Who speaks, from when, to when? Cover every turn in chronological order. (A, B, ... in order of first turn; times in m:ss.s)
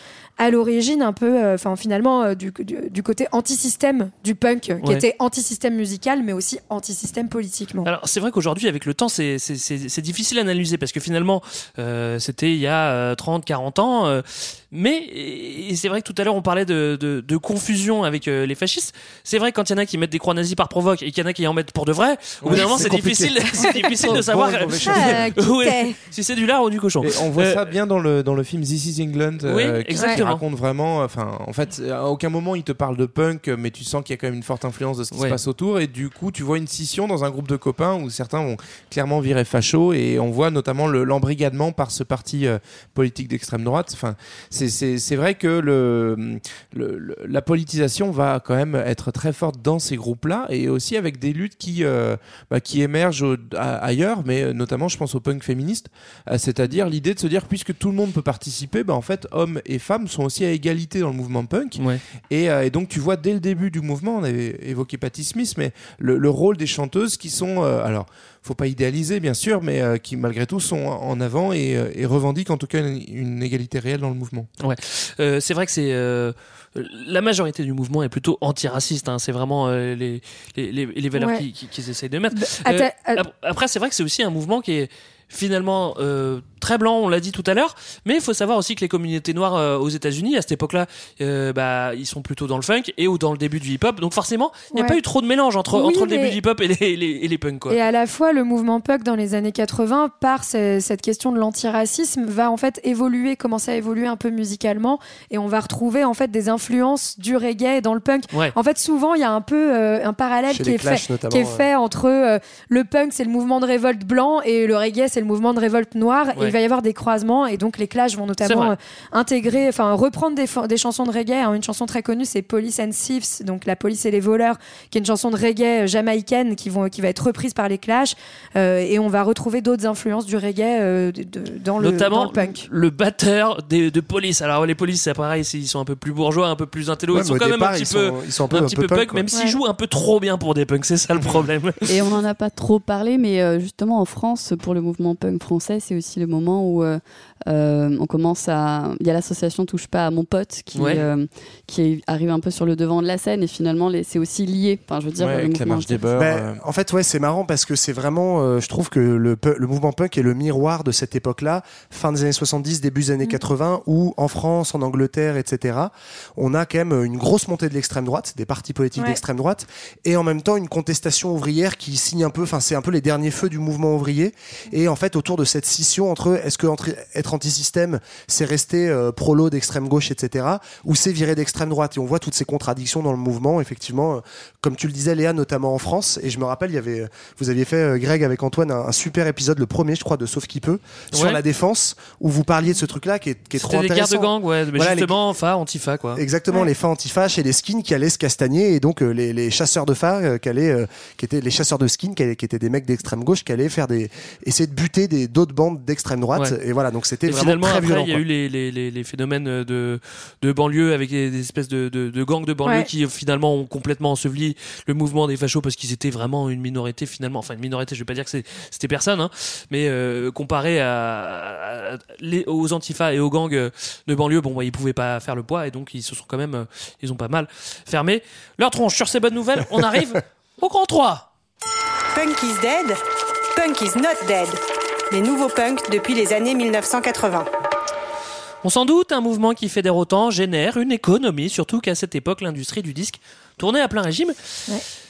0:00.4-0:07.9 A
0:07.8-0:27.7 B
0:22.4-0:23.4 C
0:22.5-0:23.4 D
0:23.6-0:24.0 A
0:24.0-0:25.3 C
0:24.9-0:26.0 A
0:27.0-1:14.5 C
0:29.4-0:30.4 B
0:35.1-0:35.4 B
1:14.6-1:37.8 B
1:21.2-1:21.4 A
1:22.4-1:23.2 A
1:34.7-1:35.0 A
1:35.7-1:36.4 A
1:37.7-2:12.6 A
1:50.5-1:51.7 D
1:58.4-1:58.7 B
2:11.8-2:21.9 B
2:17.1-2:19.3 D
2:19.3-2:19.6 A
2:21.9-2:36.0 E
2:30.7-2:31.0 B
2:35.2-2:36.6 C
2:36.2-3:15.2 D
3:11.1-3:11.4 B
3:13.6-3:16.2 B
3:16.2-3:28.2 D
3:27.3-3:51.3 B
3:52.1-3:53.0 F
3:53.5-3:54.6 F
3:55.1-3:57.5 F
3:58.6-4:04.3 B